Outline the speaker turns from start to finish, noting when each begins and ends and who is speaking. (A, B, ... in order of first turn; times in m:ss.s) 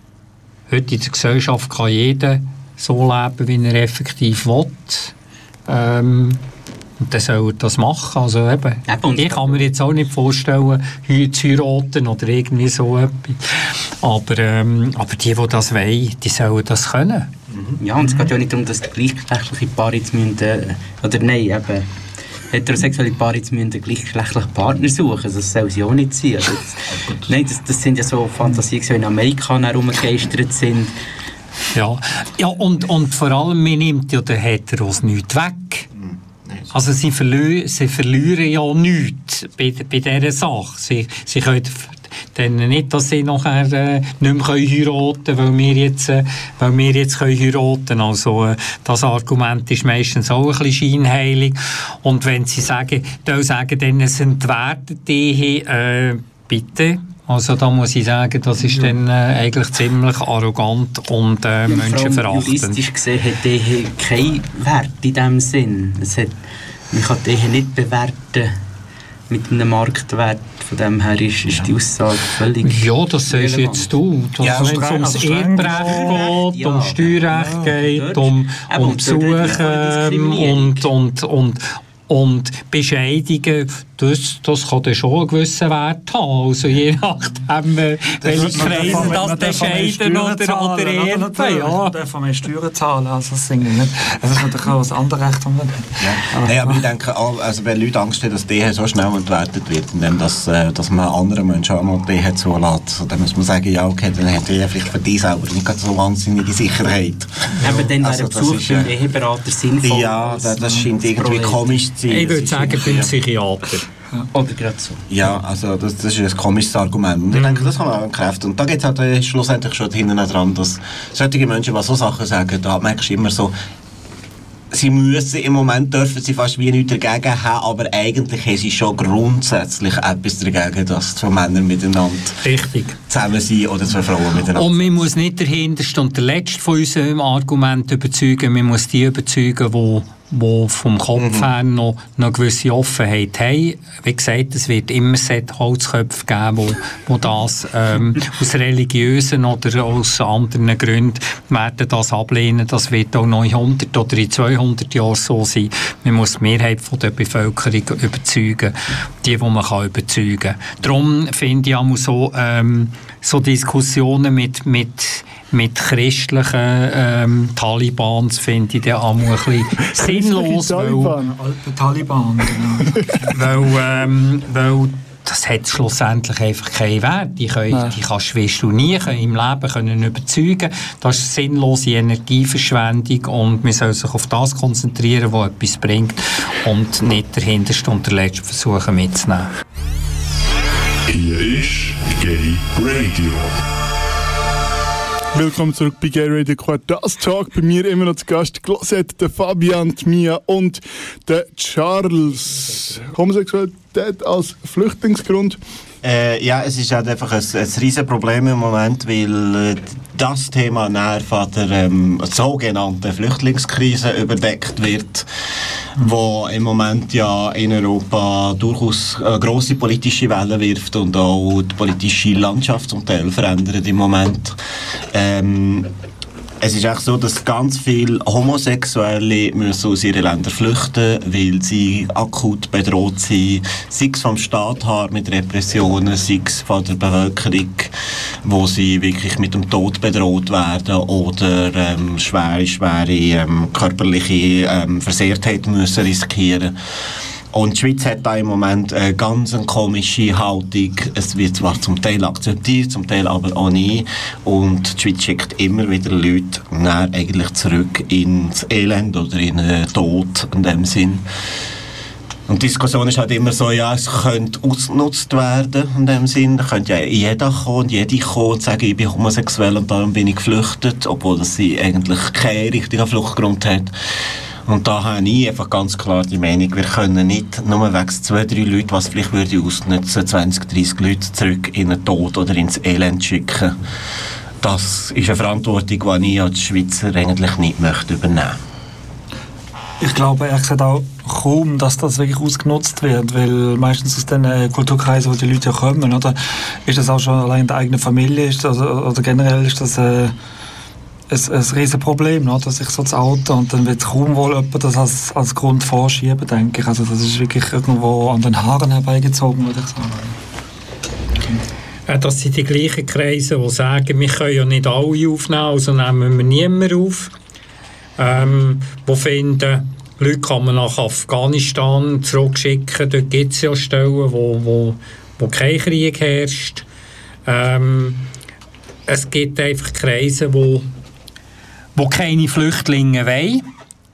0:00.7-0:05.1 A
0:05.7-0:06.4 A
0:07.0-0:17.3 A
0:08.9-0:09.6 B
0:17.5-0:17.8 C
0:17.8-0:21.9 B
0:22.5-0:30.9 B
0:31.7-0:35.9 A
0:35.9-0:36.7 C
0:36.7-1:02.8 A
1:01.7-1:08.6 B
1:09.3-1:13.9 B
1:12.6-1:31.9 A
1:14.4-1:14.8 C
1:14.4-1:16.3 D
1:15.6-1:20.9 B
1:17.3-1:17.7 D
1:28.2-1:29.3 C
1:28.3-1:36.8 D
1:36.0-1:48.9 C
1:47.6-1:51.8 B
1:49.8-1:53.1 C
1:52.1-1:53.9 A
1:54.3-1:55.0 B
1:55.1-2:03.5 C
1:57.3-1:57.7 A
2:04.7-2:12.4 C
2:12.4-2:13.0 A
2:13.1-2:15.0 C
2:14.5-2:51.1 A
2:21.2-2:21.5 C
2:49.9-2:51.4 E
2:51.3-2:53.3 D
2:53.3-3:09.5 A
3:11.1-3:13.6 F
3:15.3-3:25.6 E
3:26.0-3:35.3 C
3:36.0-3:44.6 C
3:45.1-3:45.9 C
3:46.6-3:57.9 C
3:58.4-4:06.7 C
4:07.5-4:21.2 C
4:22.5-4:33.9 C
4:34.6-4:43.8 C
4:44.6-4:48.6 C
4:50.0-5:00.3 D
5:01.3-5:10.4 D
5:12.1-5:17.3 A
5:18.2-5:26.9 A
5:27.4-5:28.3 A
5:29.1-5:30.9 A
5:32.0-5:33.6 A